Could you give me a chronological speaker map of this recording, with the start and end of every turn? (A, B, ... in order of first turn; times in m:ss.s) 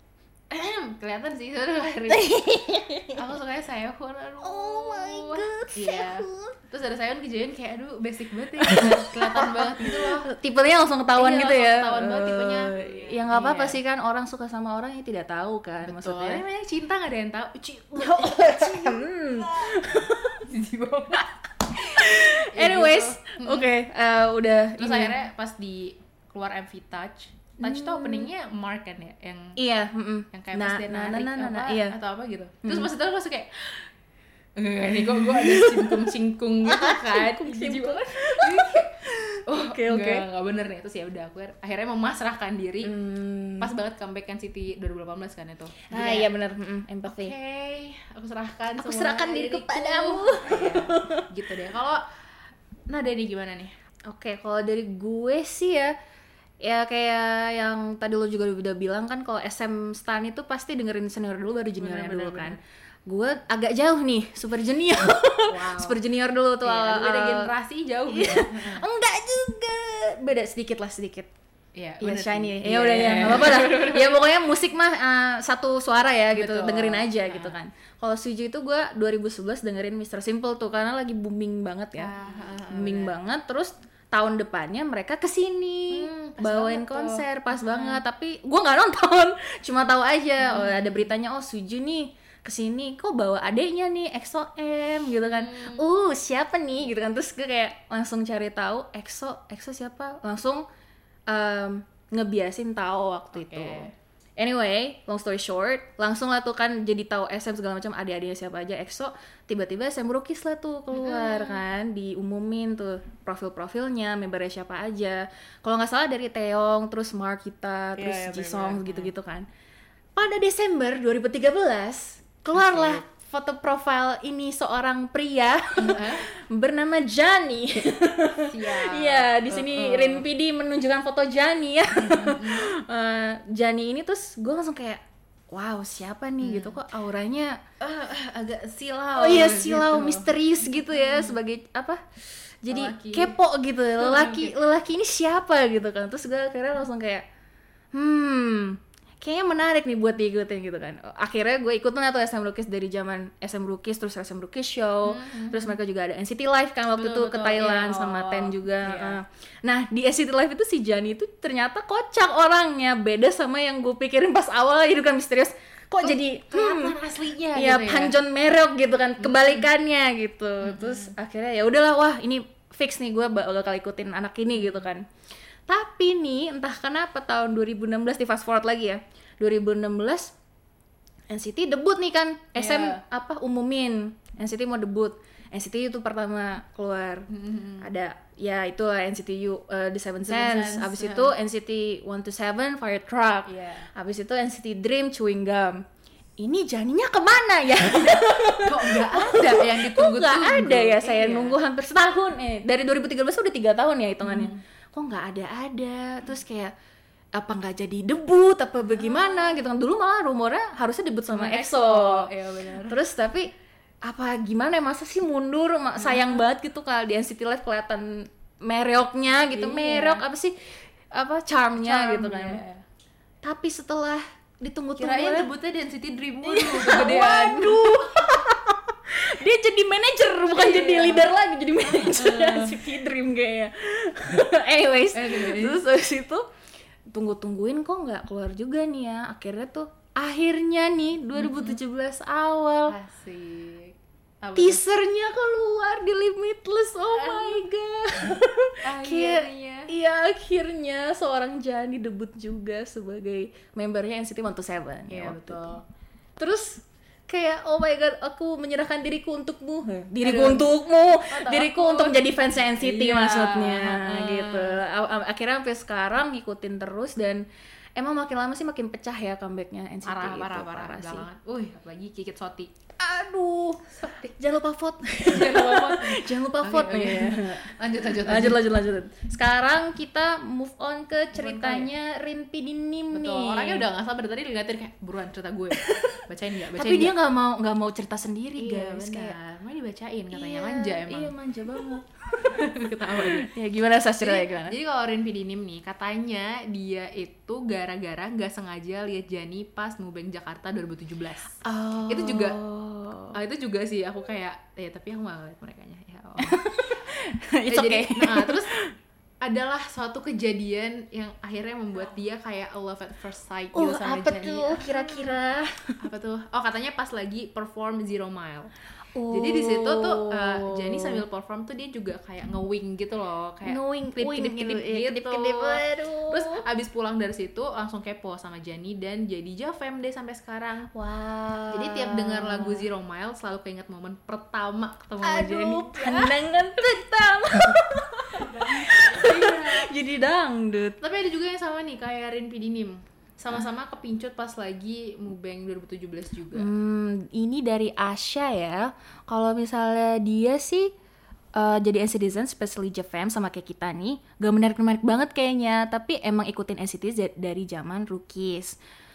0:00.5-0:02.3 A
0:02.1-0:03.2 B
0:03.1-0:10.3 A
0:04.4-0:06.5 B
0:08.6-0:16.4 B
0:11.1-0:13.8 A
0:15.8-0:19.1 A
0:18.0-0:20.5 B
0:20.4-0:21.3 A
0:21.7-0:25.2 B
0:22.0-0:23.7 A
0:24.8-0:29.6 A
0:27.6-0:28.3 B
0:29.6-0:32.0 B
0:30.3-0:33.8 A
0:32.6-0:32.9 B
0:34.6-0:39.0 A
0:34.9-0:36.1 B
0:36.6-0:40.2 B
0:39.5-0:42.9 A
0:42.8-0:43.7 B
0:43.6-0:46.3 A
0:45.9-0:47.3 B
0:47.0-0:52.0 A
0:48.8-0:51.2 B
0:52.9-0:53.7 A
0:54.1-0:55.9 B
0:56.6-1:07.5 B
1:01.8-1:02.6 A
1:05.5-1:06.0 A
1:06.6-1:08.8 A
1:08.1-1:11.3 B
1:11.8-1:14.2 A
1:12.0-1:22.1 B
1:16.3-1:17.5 A
1:22.0-1:23.2 A
1:22.7-1:40.6 B
1:25.9-1:28.0 A
1:30.4-1:31.1 A
1:35.3-1:35.8 A
1:41.3-1:59.5 B
1:43.3-1:43.9 A
1:50.9-1:51.6 A
1:58.0-1:59.1 A
2:00.1-2:17.6 B
2:02.5-2:03.0 A
2:05.8-2:06.2 A
2:08.4-2:10.2 A
2:12.0-2:12.7 A
2:16.4-2:16.8 A
2:17.8-2:21.4 A
2:19.1-2:22.0 B
2:22.6-2:27.2 B
2:22.7-2:23.4 A
2:24.0-2:24.6 A
2:27.9-2:47.0 B
2:35.0-2:35.8 A
2:36.9-2:39.2 A
2:46.0-2:48.2 A
2:47.5-2:55.0 B
2:49.2-2:49.7 A
2:50.6-2:51.1 A
2:54.6-2:54.8 A
2:55.7-3:00.3 B
3:01.3-3:07.3 B
3:02.5-3:03.0 A
3:07.3-3:07.9 A
3:07.8-3:15.8 B
3:10.2-3:11.3 A
3:13.5-3:13.9 A
3:16.4-3:26.7 B
3:18.6-3:21.6 A
3:24.2-3:24.6 A
3:27.3-3:32.3 B
3:28.9-3:29.6 A
3:31.3-3:33.0 A
3:32.8-3:33.5 B
3:34.0-3:42.6 B
3:36.0-3:36.4 A
3:39.5-3:40.2 A
3:41.8-3:42.8 A
3:43.4-3:45.5 B
3:45.0-3:48.1 A
3:46.4-3:56.4 B
3:50.5-3:51.3 A
3:51.8-3:52.8 A
3:55.1-3:55.8 A
3:57.1-4:02.9 B
4:01.3-4:01.8 A
4:02.9-4:04.8 A
4:04.5-4:15.7 B
4:07.1-4:07.6 A
4:08.8-4:09.9 A
4:15.1-4:15.8 A
4:16.4-4:31.2 B
4:20.2-4:24.8 A
4:30.0-4:32.7 A
4:33.0-4:43.9 B
4:33.9-4:34.3 A
4:35.3-4:38.6 A
4:41.3-4:41.9 A
4:43.1-4:47.2 A
4:45.7-4:49.4 B
4:48.6-4:51.3 A
4:50.3-4:54.8 B
4:52.4-4:53.5 A
4:54.2-5:02.6 A
5:01.6-5:03.4 B
5:03.3-5:06.7 A
5:06.4-5:08.9 B
5:07.7-5:08.7 A
5:09.4-5:15.2 A
5:13.7-5:16.0 B
5:16.0-5:18.7 A
5:19.1-5:21.2 B
5:19.3-5:30.9 A
5:23.6-5:26.6 B
5:30.9-5:32.9 B
5:31.7-5:36.4 A
5:35.2-5:41.0 B
5:38.6-5:39.9 A
5:41.0-5:46.7 A
5:46.5-5:50.9 B
5:51.5-5:58.8 B